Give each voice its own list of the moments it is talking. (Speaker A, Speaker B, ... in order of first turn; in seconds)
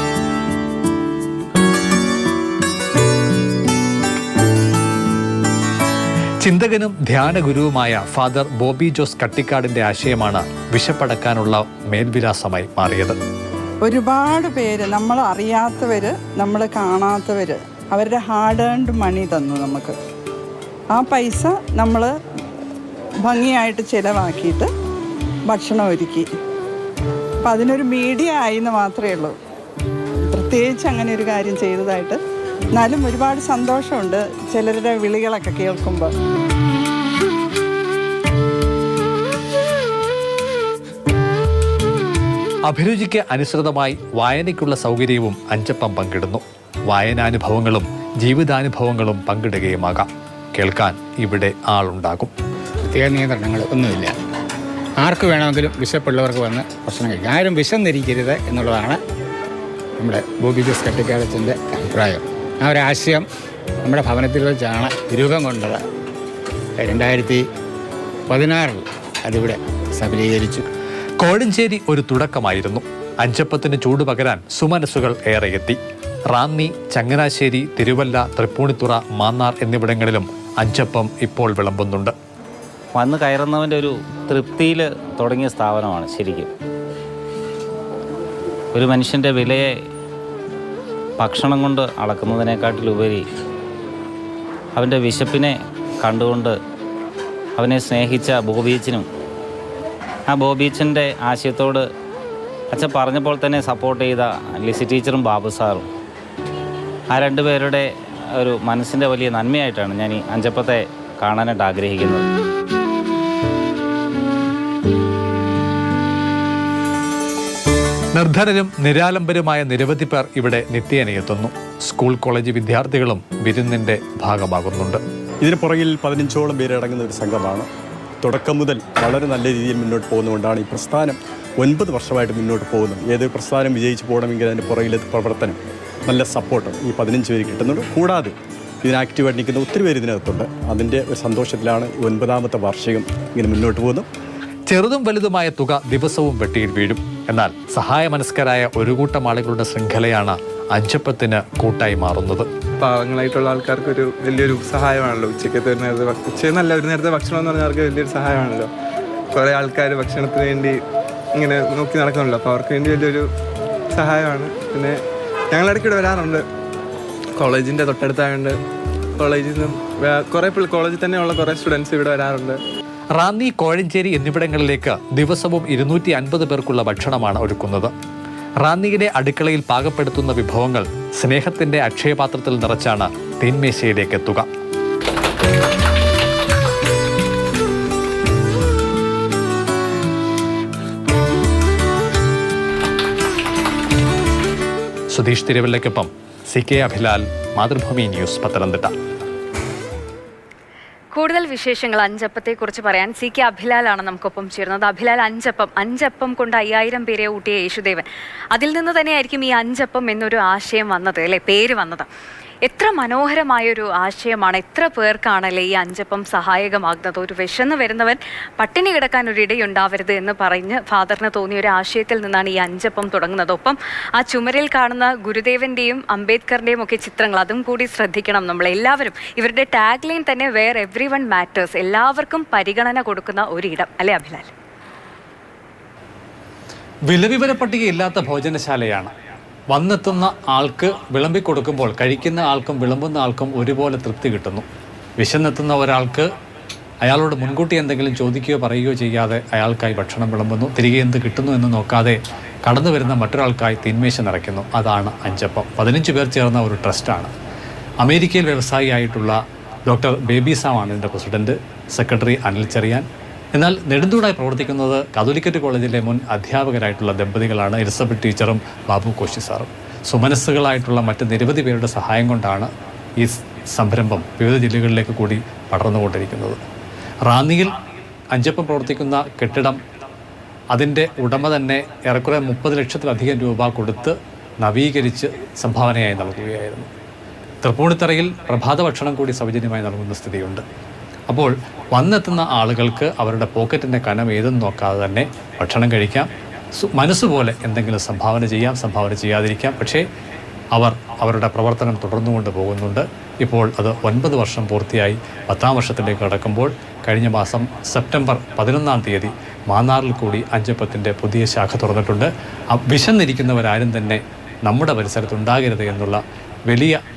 Speaker A: 6.4-13.2, 42.7-52.3, 71.2-75.8, 76.3-82.1, 118.2-125.0, 144.7-152.5, 173.2-177.9, 178.6-184.5, 195.1-198.9, 237.1-239.1, 239.7-244.6, 245.2-246.3, 247.0-257.3, 258.0-276.6, 277.3-277.8, 278.3-279.8, 280.7-286.9, 287.6-290.6, 291.3-300.0, 300.7-317.0
Speaker B: 13.8-19.9, 20.9-22.1, 23.2-24.7, 25.5-26.3, 27.4-29.4, 30.3-32.2, 32.7-36.1
Speaker C: 52.9-53.5, 55.0-55.4, 56.1-56.5, 57.2-58.8, 60.3-61.4, 62.7-63.1, 64.0-64.7, 65.3-65.7, 70.1-70.4
Speaker D: 82.9-86.5, 88.7-89.7, 91.2-93.2, 94.7-96.5, 97.6-99.1, 100.3-101.8, 102.7-105.8, 107.1-112.2
Speaker E: 125.4-127.7, 128.2-144.1
Speaker F: 152.8-158.7, 159.3-160.8, 161.4-163.3, 163.9-165.0, 165.5-166.4, 167.4-168.6, 169.2-172.6
Speaker G: 201.1-212.1, 212.7-234.5